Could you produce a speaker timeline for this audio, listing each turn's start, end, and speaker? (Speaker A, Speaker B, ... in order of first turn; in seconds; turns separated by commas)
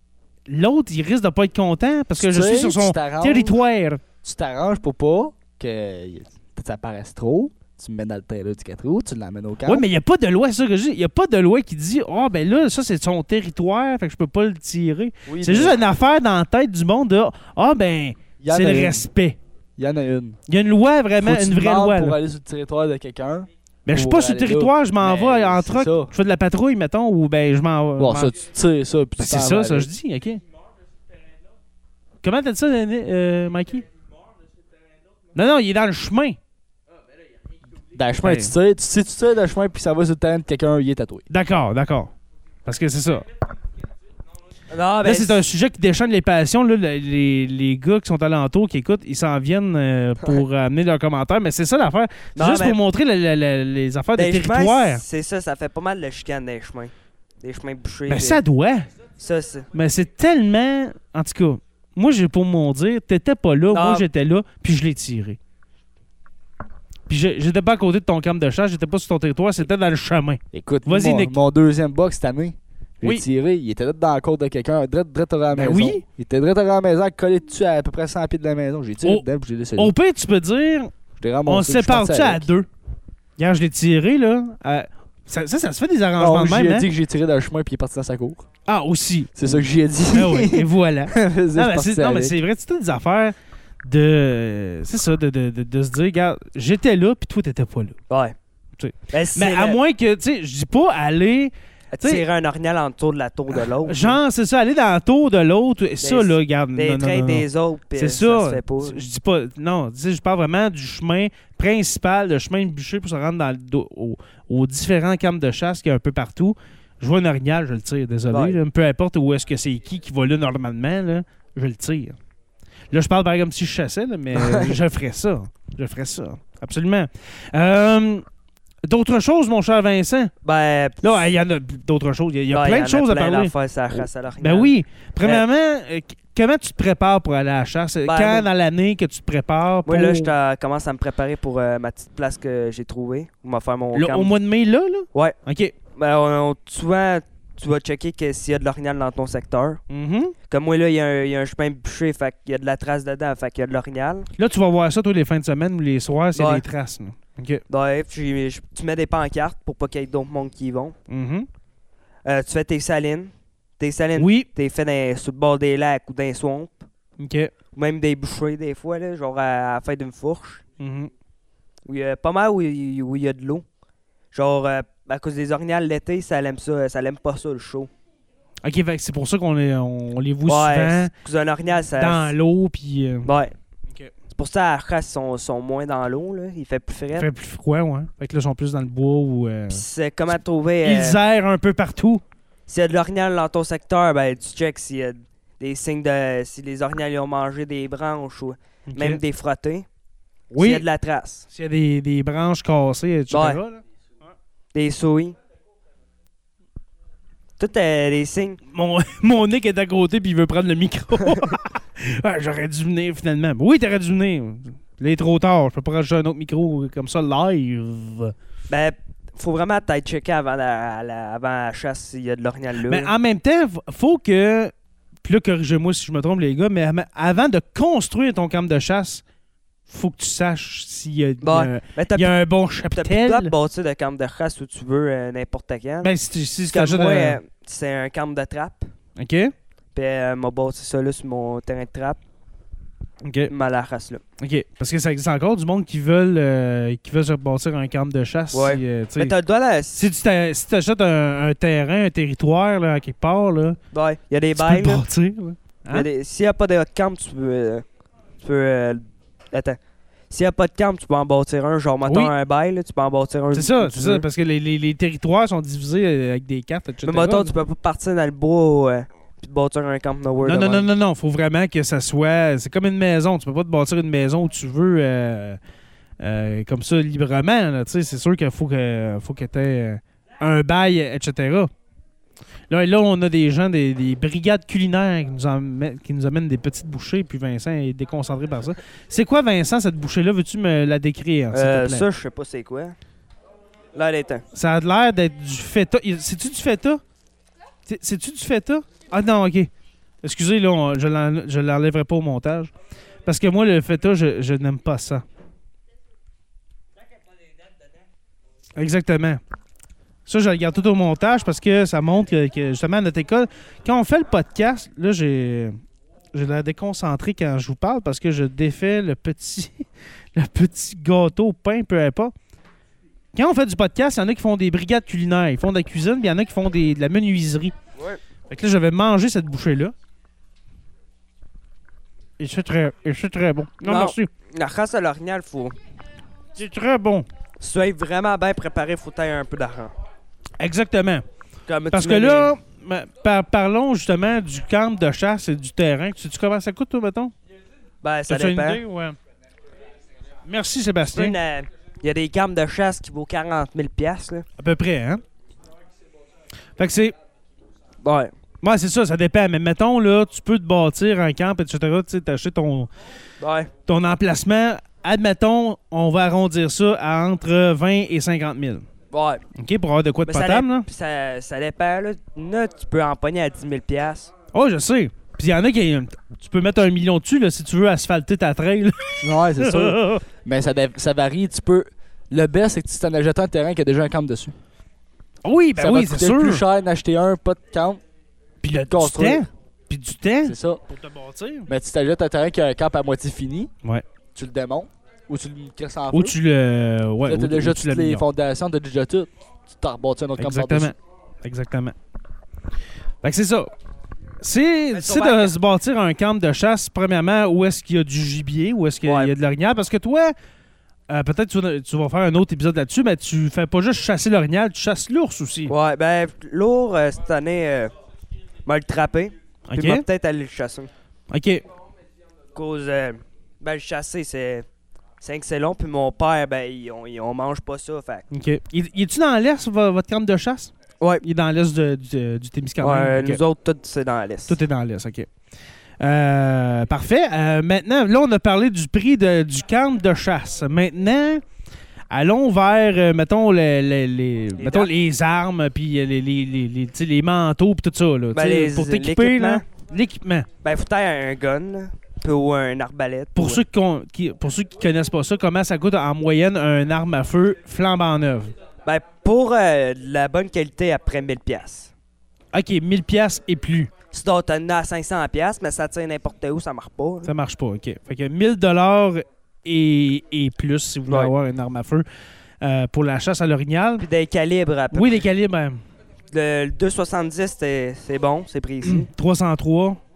Speaker A: 0.5-4.0, Speaker B: 2.2-3.6, Speaker B: 4.2-9.9, Speaker A: 9.7-19.4, Speaker B: 15.3-15.8, Speaker B: 18.4-19.1, Speaker B: 19.8-20.4, Speaker A: 20.5-22.2, Speaker B: 21.2-26.1, Speaker A: 23.9-28.4, Speaker B: 28.0-29.9, Speaker A: 29.2-30.4, Speaker A: 32.2-33.9, Speaker A: 35.3-36.4, Speaker B: 37.9-41.2, Speaker A: 38.2-38.5, Speaker A: 41.3-42.1, Speaker A: 42.6-43.3, Speaker C: 44.7-45.4, Speaker A: 45.0-55.0, Speaker C: 52.4-52.8, Speaker C: 54.2-58.4, Speaker A: 58.1-58.9, Speaker C: 59.2-59.7, Speaker A: 59.7-65.4, Speaker C: 63.7-64.1, Speaker A: 67.1-71.3, Speaker B: 70.5-79.9, Speaker A: 75.5-76.0, Speaker A: 79.8-80.9, Speaker B: 81.2-82.5, Speaker A: 81.5-82.7, Speaker A: 83.4-86.9, Speaker B: 86.2-88.5, Speaker A: 88.7-89.3, Speaker B: 89.4-92.4, Speaker A: 90.1-98.0, Speaker C: 98.1-98.4, Speaker A: 98.8-102.2, Speaker C: 99.1-99.8, Speaker C: 101.9-104.2, Speaker A: 103.5-122.2, Speaker C: 106.0-109.1, Speaker C: 118.3-118.6, Speaker A: 122.9-128.2, Speaker C: 124.3-124.8, Speaker A: 128.8-130.3, Speaker C: 130.4-131.3, Speaker A: 131.0-140.3, Speaker C: 132.5-135.4, Speaker C: 138.1-138.5, Speaker C: 139.9-144.3, Speaker A: 143.9-145.7, Speaker C: 146.0-149.8, Speaker A: 149.9-150.3, Speaker C: 150.5-154.3, Speaker A: 154.4-157.6, Speaker C: 156.3-156.6, Speaker C: 157.7-161.0, Speaker A: 161.1-161.5, Speaker C: 162.3-166.9, Speaker A: 164.2-164.5, Speaker A: 167.2-167.5, Speaker C: 167.7-170.6, Speaker A: 170.8-171.1, Speaker C: 171.9-173.7, Speaker C: 174.3-177.9, Speaker A: 178.6-181.1, Speaker C: 180.5-182.3, Speaker A: 182.0-183.3, Speaker C: 183.2-183.5, Speaker C: 184.3-187.3, Speaker A: 187.2-189.8, Speaker C: 189.7-191.2, Speaker A: 190.8-192.2, Speaker C: 192.7-199.9, Speaker A: 198.9-199.2, Speaker A: 200.5-200.9, Speaker C: 200.6-201.5, Speaker A: 201.5-203.8, Speaker C: 203.3-203.6, Speaker C: 204.7-205.4, Speaker C: 207.6-208.6, Speaker A: 208.7-218.3, Speaker C: 211.2-211.5, Speaker C: 218.7-223.1, Speaker A: 222.9-224.7, Speaker A: 225.2-229.2, Speaker A: 229.9-233.5, Speaker C: 231.4-232.3, Speaker C: 232.9-236.1, Speaker A: 236.0-237.4, Speaker C: 236.7-238.9, Speaker A: 239.2-239.5, Speaker C: 239.9-242.2, Speaker A: 243.2-243.5, Speaker C: 243.5-244.2, Speaker A: 244.4-249.3, Speaker C: 248.5-250.0, Speaker A: 250.0-253.8, Speaker C: 253.9-255.0, Speaker A: 254.6-256.1, Speaker C: 255.9-257.8, Speaker C: 258.4-259.8, Speaker C: 260.3-264.2, Speaker A: 262.1-262.3, Speaker A: 263.5-267.5, Speaker C: 267.0-270.9, Speaker A: 270.4-275.6, Speaker A: 276.2-281.7, Speaker A: 282.7-292.1, Speaker C: 291.5-293.0, Speaker C: 293.9-294.4, Speaker A: 294.5-297.0, Speaker A: 297.9-299.7, Speaker A: 300.2-302.7, Speaker A: 303.3-305.2, Speaker A: 308.8-309.4, Speaker A: 310.3-315.8, Speaker A: 316.3-322.3, Speaker A: 323.3-327.7, Speaker A: 328.5-329.9, Speaker A: 332.4-334.3, Speaker C: 333.8-335.8, Speaker A: 336.6-337.3, Speaker C: 337.6-339.9, Speaker A: 340.6-341.2, Speaker C: 341.7-342.5, Speaker A: 341.9-347.3, Speaker C: 348.0-348.8, Speaker A: 348.3-349.2, Speaker A: 350.5-351.4, Speaker C: 351.1-354.4, Speaker A: 354.6-355.2, Speaker A: 356.8-357.1, Speaker C: 358.0-358.3, Speaker A: 358.6-362.9, Speaker C: 363.4-363.7, Speaker A: 363.9-368.9, Speaker C: 369.1-369.4, Speaker A: 369.6-370.9, Speaker C: 370.3-374.3, Speaker A: 374.5-380.2, Speaker B: 379.2-384.6, Speaker A: 385.4-386.6, Speaker B: 385.8-388.0, Speaker A: 388.6-391.7, Speaker B: 388.9-389.5, Speaker B: 390.4-390.8, Speaker B: 391.7-393.7, Speaker B: 394.4-396.4, Speaker A: 396.1-398.2, Speaker B: 397.2-400.9, Speaker A: 400.4-402.0, Speaker A: 403.2-403.7, Speaker A: 404.4-410.4, Speaker C: 404.9-405.5, Speaker C: 409.1-409.3, Speaker A: 411.1-415.7, Speaker C: 415.7-417.9, Speaker C: 418.7-420.9, Speaker A: 419.7-420.0, Speaker A: 421.3-421.6, Speaker C: 422.6-424.7, Speaker C: 425.2-428.3, Speaker A: 428.3-433.4, Speaker C: 432.8-434.6, Speaker A: 434.5-435.3, Speaker A: 436.0-441.4, Speaker A: 442.1-450.5, Speaker C: 444.6-444.9, Speaker C: 448.3-449.6, Speaker C: 450.6-453.6, Speaker A: 453.4-458.5, Speaker C: 458.9-461.9, Speaker A: 462.5-463.9, Speaker C: 464.1-467.3, Speaker A: 467.2-472.1, Speaker C: 471.1-471.3, Speaker A: 472.6-474.1, Speaker C: 474.0-475.2, Speaker A: 474.9-475.8, Speaker C: 476.3-479.1, Speaker A: 478.8-480.0